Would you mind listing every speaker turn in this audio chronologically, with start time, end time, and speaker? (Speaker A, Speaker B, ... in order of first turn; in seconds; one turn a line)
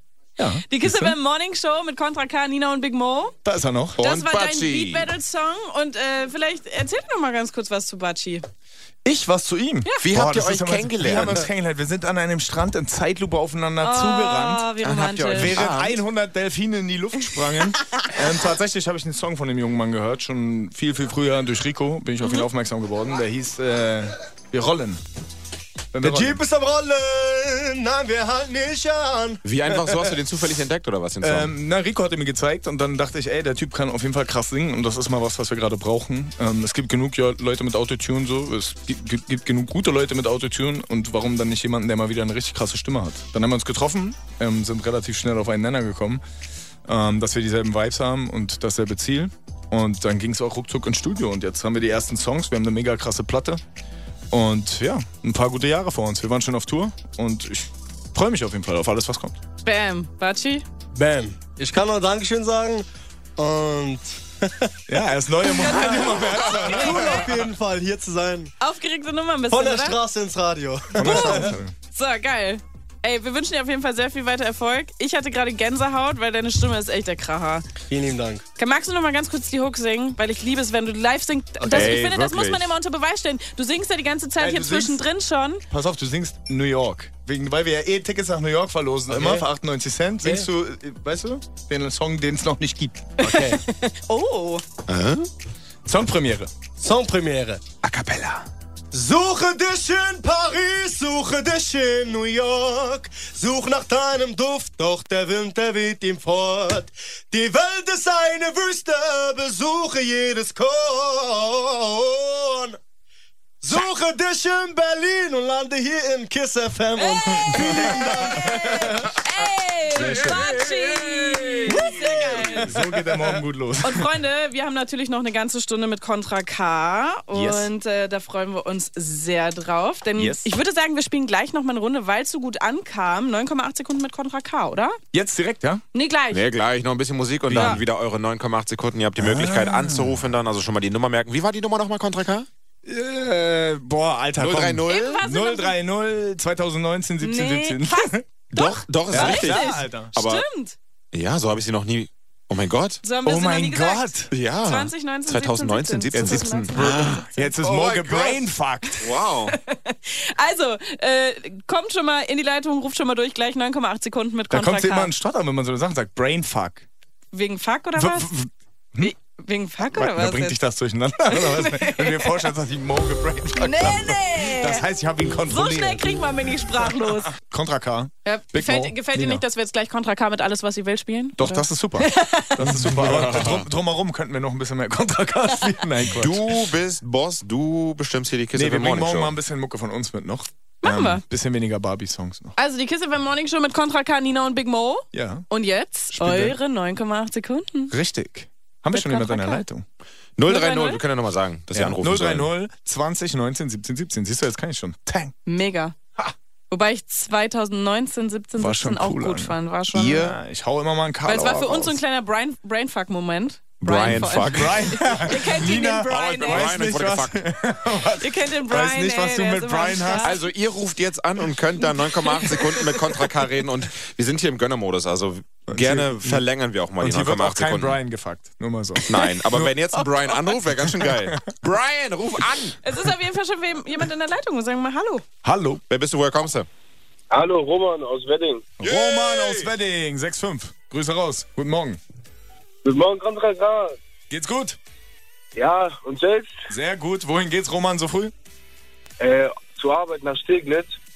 Speaker A: 0.4-1.1
Speaker B: 0.7-3.4
Speaker A: 3.4-4.0
Speaker C: 4.0-5.1
Speaker B: 4.0-8.5
Speaker A: 9.1-14.7
Speaker C: 10.0-11.5
Speaker B: 13.8-15.6
Speaker C: 14.8-16.0
Speaker A: 15.3-25.0
Speaker A: 25.9-26.4
Speaker D: 26.0-29.4
Speaker C: 29.4-31.5
Speaker A: 31.2-46.2
Speaker A: 46.9-53.6
Speaker A: 54.3-59.4
Speaker B: 59.6-60.6
Speaker D: 61.0-62.9
Speaker D: 63.4-64.7
Speaker A: 64.9-67.3
Speaker B: 65.4-67.2
Speaker D: 66.6-68.5
Speaker B: 68.6-70.0
Speaker D: 69.5-71.6
Speaker A: 71.0-71.7
Speaker B: 71.0-77.7
Speaker D: 77.9-78.4
Speaker B: 78.6-85.6
Speaker C: 81.7-82.7
Speaker A: 84.4-85.0
Speaker A: 85.7-93.4
Speaker D: 89.1-89.5
Speaker D: 93.2-93.6
Speaker B: 93.2-94.6
Speaker C: 94.9-95.3
Speaker A: 95.9-96.5
Speaker D: 96.8-97.6
Speaker A: 97.8-98.5
Speaker D: 98.9-112.8
Speaker D: 113.6-119.0
Speaker B: 117.0-122.8
Speaker A: 117.7-119.0
Speaker A: 119.9-120.7
Speaker A: 121.7-124.1
Speaker B: 123.8-135.0
Speaker A: 127.3-127.7
Speaker A: 130.2-130.5
Speaker A: 135.1-135.8
Speaker B: 135.9-136.4
Speaker C: 136.3-142.5
Speaker A: 137.5-137.8
Speaker B: 137.5-137.8
Speaker A: 139.2-140.3
Speaker A: 142.8-148.2
Speaker C: 144.4-145.2
Speaker B: 144.9-145.8
Speaker B: 147.2-150.8
Speaker C: 148.5-150.4
Speaker A: 149.1-150.2
Speaker C: 151.1-153.0
Speaker B: 153.0-154.1
Speaker A: 153.2-154.3
Speaker C: 154.3-158.4
Speaker B: 154.6-157.5
Speaker A: 156.1-159.1
Speaker C: 159.0-159.6
Speaker B: 159.5-165.1
Speaker A: 164.5-166.9
Speaker B: 167.3-168.3
Speaker A: 168.0-169.1
Speaker B: 169.0-170.6
Speaker A: 169.8-176.0
Speaker B: 171.3-172.4
Speaker B: 173.6-174.8
Speaker B: 175.5-177.3
Speaker A: 176.8-179.4
Speaker B: 178.2-182.9
Speaker A: 181.4-186.7
Speaker C: 182.6-183.7
Speaker C: 186.1-189.3
Speaker A: 188.5-192.6
Speaker B: 190.8-191.2
Speaker B: 192.6-197.9
Speaker A: 195.1-195.5
Speaker A: 196.1-196.6
Speaker A: 197.9-199.8
Speaker B: 198.9-199.6
Speaker C: 200.4-202.5
Speaker B: 200.5-201.0
Speaker A: 201.7-205.3
Speaker B: 205.5-206.0
Speaker B: 206.7-210.3
Speaker A: 208.6-212.0
Speaker C: 209.9-210.3
Speaker B: 211.2-216.8
Speaker C: 213.8-215.2
Speaker A: 214.3-220.3
Speaker C: 216.1-217.4
Speaker B: 218.2-220.5
Speaker C: 220.2-228.0
Speaker B: 222.2-222.9
Speaker A: 225.7-226.4
Speaker A: 227.0-229.8
Speaker C: 229.1-232.8
Speaker B: 229.9-230.4
Speaker A: 231.1-231.5
Speaker B: 232.8-235.2
Speaker A: 235.4-235.8
Speaker C: 235.9-236.7
Speaker E: 237.3-238.7
Speaker A: 238.8-242.0
Speaker C: 238.8-239.7
Speaker E: 242.8-243.9
Speaker A: 244.3-244.8
Speaker E: 245.6-246.5
Speaker A: 246.7-248.3
Speaker E: 249.2-251.0